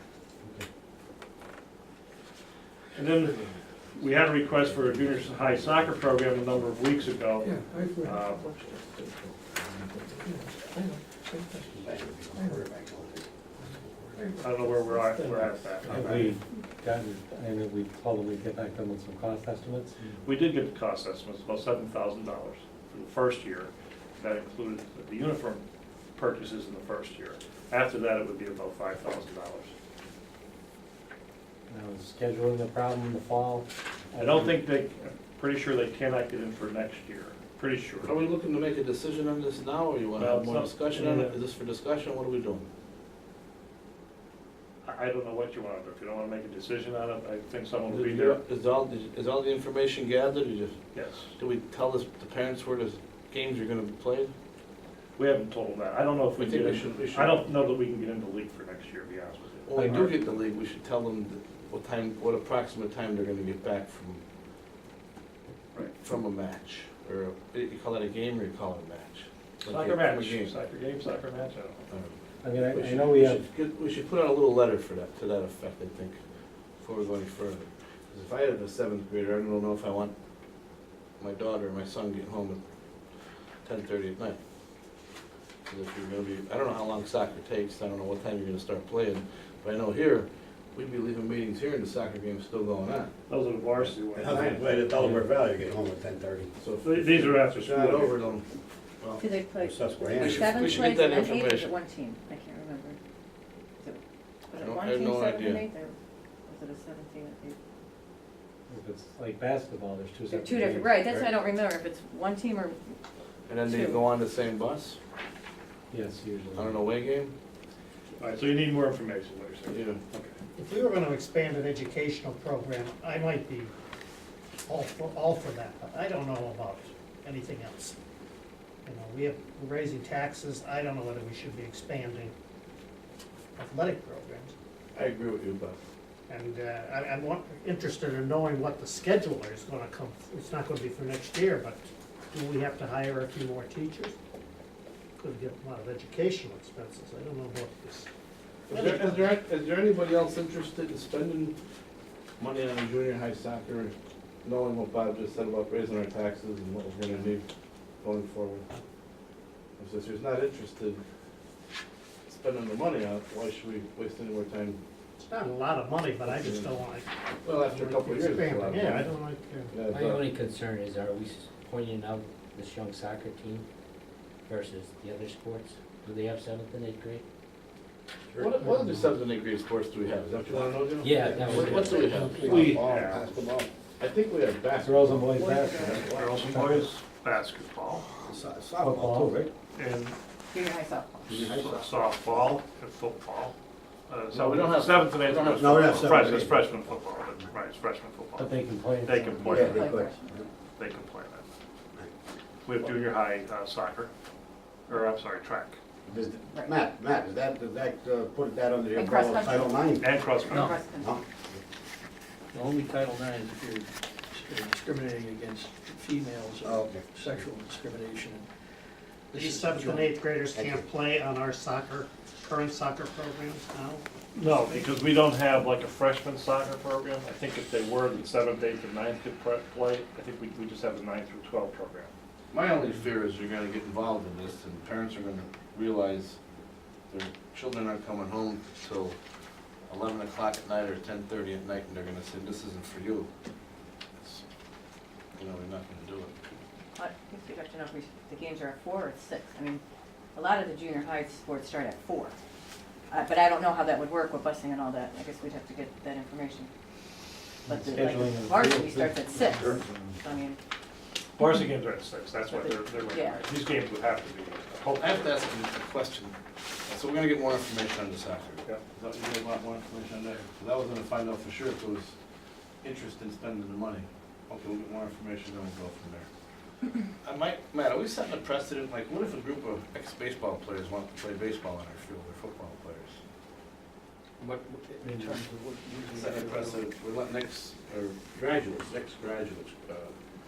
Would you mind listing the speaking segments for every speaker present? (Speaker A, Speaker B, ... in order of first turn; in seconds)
Speaker A: 3.0-8.5, 14.3-16.4, 20.2-25.6, 26.2-29.7, 34.1-38.1, 40.2-41.4, 44.9-48.4, 50.9-51.3, 55.2-60.1, 69.7-71.9, 93.3-94.8, 96.8-98.3, 118.2-120.3, 182.4-183.2, 185.9-188.1, 189.8-190.2, 191.3-193.6, 194.1-199.9, 200.8-201.4, 202.7-204.1, 204.9-205.8, 210.0-210.8, 224.3-232.1, 261.4-265.3
Speaker B: 7.4-9.1, 10.2-11.6, 14.2-15.6, 212.5-218.5, 219.3-220.1, 284.4-286.9
Speaker C: 11.6-14.2, 94.1-96.5, 99.6-100.9, 180.6-183.7, 188.2-189.4, 191.3-192.1, 195.6-197.0, 199.4-200.5, 206.1-210.1, 210.9-211.6, 216.6-217.1, 220.5-220.9
Speaker D: 15.9-20.2, 31.7-34.5, 59.8-60.1, 72.4-73.4, 108.7-111.2, 115.9-116.8, 184.8-186.7, 188.8-189.5, 198.4-199.8, 257.7-260.2, 285.0-285.4
Speaker E: 38.0-42.7, 47.9-50.8, 51.4-54.3, 56.4-57.4, 59.7-64.2, 66.0-70.5, 71.9-76.2, 76.8-80.1, 81.2-82.6, 83.7-84.4, 85.7-93.1, 93.8-94.6, 96.6-98.5, 99.0-99.3, 100.2-101.7, 104.6-105.7, 113.5-115.0, 116.5-117.3, 119.7-120.0, 134.9-135.8, 148.7-151.6, 152.4-157.4, 158.0-158.7, 159.8-161.0, 162.3-164.8, 166.2-166.8, 167.4-169.1, 169.7-170.3, 178.3-183.5, 184.0-186.9, 194.3-196.5, 232.5-236.4, 237.1-239.2, 239.9-243.3, 245.4-246.4, 264.9-266.4, 266.9-272.1, 272.8-276.3, 277.2-283.2, 286.1-290.1
Speaker F: 99.2-103.0, 103.8-106.0, 106.5-107.6, 110.3-112.8, 113.6-114.0, 185.5-186.0, 190.5-191.4, 199.5-200.2, 208.9-209.8, 210.5-211.2, 247.0-249.8, 250.3-252.3, 253.1-256.7, 257.6-260.6, 262.5-263.4
Speaker G: 120.6-123.7, 124.7-128.0, 128.9-132.3, 133.6-134.5, 136.3-144.2, 145.2-148.1, 148.7-149.3, 165.2-169.8, 219.3-224.1
Speaker H: 169.9-173.7, 174.5-177.2, 181.0-182.7